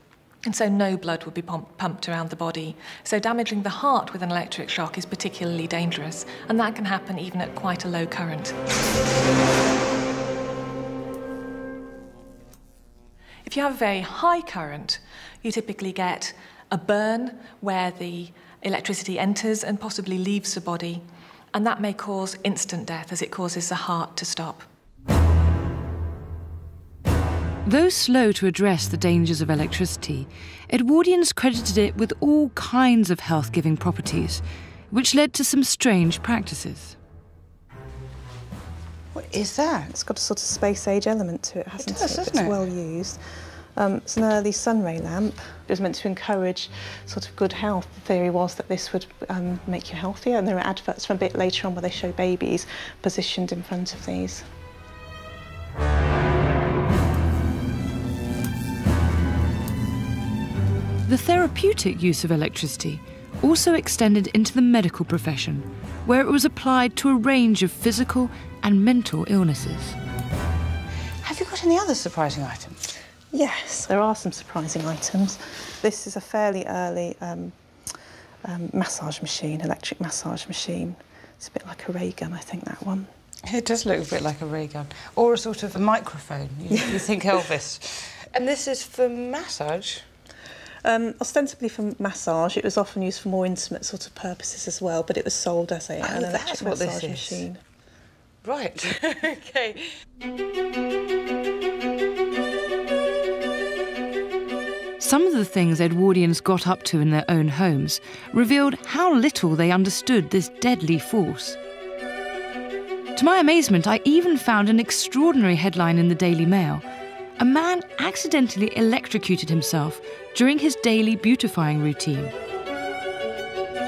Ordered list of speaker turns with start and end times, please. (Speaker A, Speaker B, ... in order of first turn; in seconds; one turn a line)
Speaker A: 0.4-8.6
Speaker A: 13.4-21.0
Speaker A: 21.5-24.6
Speaker B: 27.6-37.0
Speaker C: 39.1-39.9
Speaker D: 39.9-43.2
Speaker C: 41.8-42.6
Speaker D: 43.8-54.5
Speaker B: 61.1-70.0
Speaker C: 71.2-72.8
Speaker D: 73.3-77.5
Speaker D: 78.4-83.1
Speaker C: 83.5-90.0
Speaker D: 90.8-97.6
Speaker C: 96.0-97.5
Speaker C: 98.4-99.8
Speaker B: 105.0-111.6
Speaker B: 113.1-116.8
Speaker B: 117.4-122.3